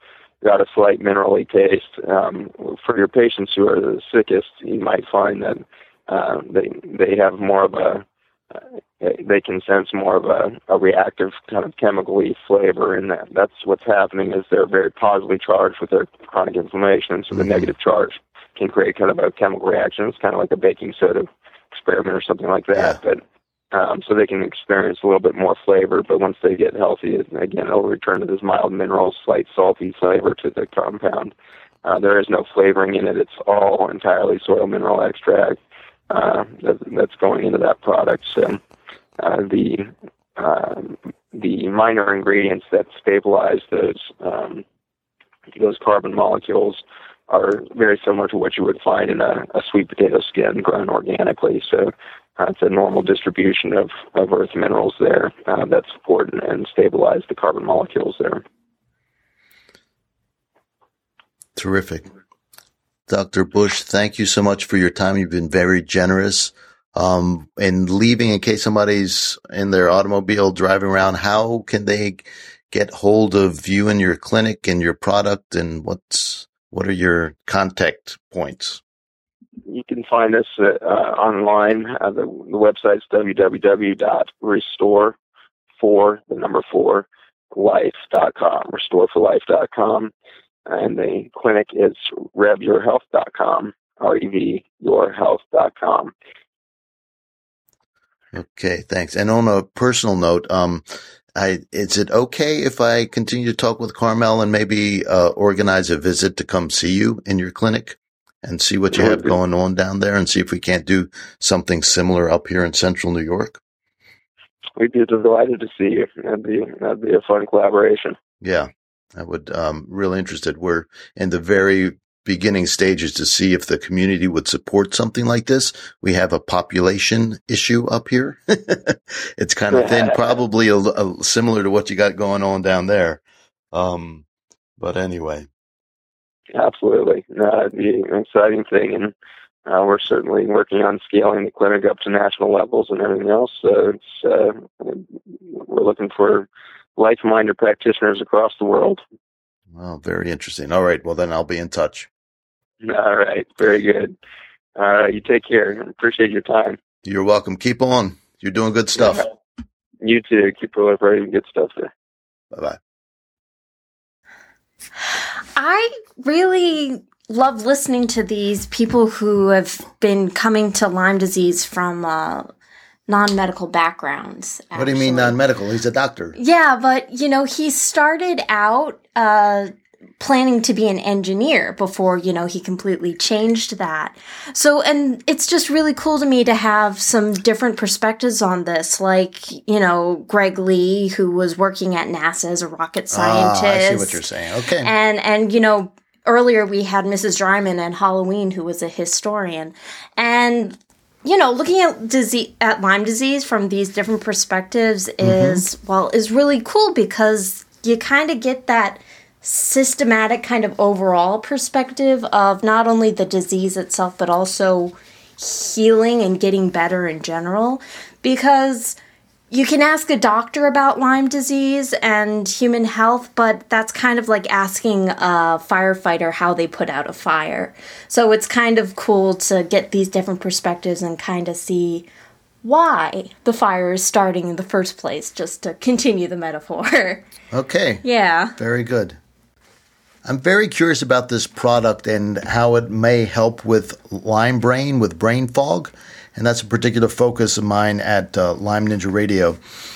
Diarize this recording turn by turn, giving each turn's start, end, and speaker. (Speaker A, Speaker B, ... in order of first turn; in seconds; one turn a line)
Speaker A: 0.4-31.3
Speaker B: 17.3-17.6
Speaker A: 31.8-35.6
Speaker A: 36.1-38.6
Speaker A: 39.2-44.6
Speaker A: 45.6-58.4
Speaker B: 61.5-62.1
Speaker B: 63.1-78.8
Speaker A: 79.7-85.2
Speaker A: 85.8-90.1
Speaker A: 90.7-96.1
Speaker B: 98.3-100.8
Speaker B: 101.3-113.6
Speaker A: 108.9-109.4
Speaker A: 114.8-118.2
Speaker B: 118.4-134.2
Speaker A: 129.7-130.4
Speaker B: 134.8-135.5
Speaker A: 136.5-139.1
Speaker A: 139.7-149.0
Speaker B: 149.7-152.1
Speaker A: 152.8-154.1
Speaker A: 154.8-156.8
Speaker B: 157.0-159.3
Speaker A: 159.0-159.3
Speaker A: 160.0-161.9
Speaker B: 162.5-162.8
Speaker C: 165.5-172.5
Speaker C: 173.1-175.4
Speaker B: 174.7-176.3
Speaker C: 176.3-194.2
Speaker B: 193.1-194.9
Speaker C: 194.8-219.0
Speaker B: 205.2-205.6
Speaker C: 219.5-232.1
Speaker C: 232.6-237.2
Speaker B: 237.5-238.0
Speaker C: 238.0-238.6
Speaker B: 238.6-239.2
Speaker B: 240.2-249.6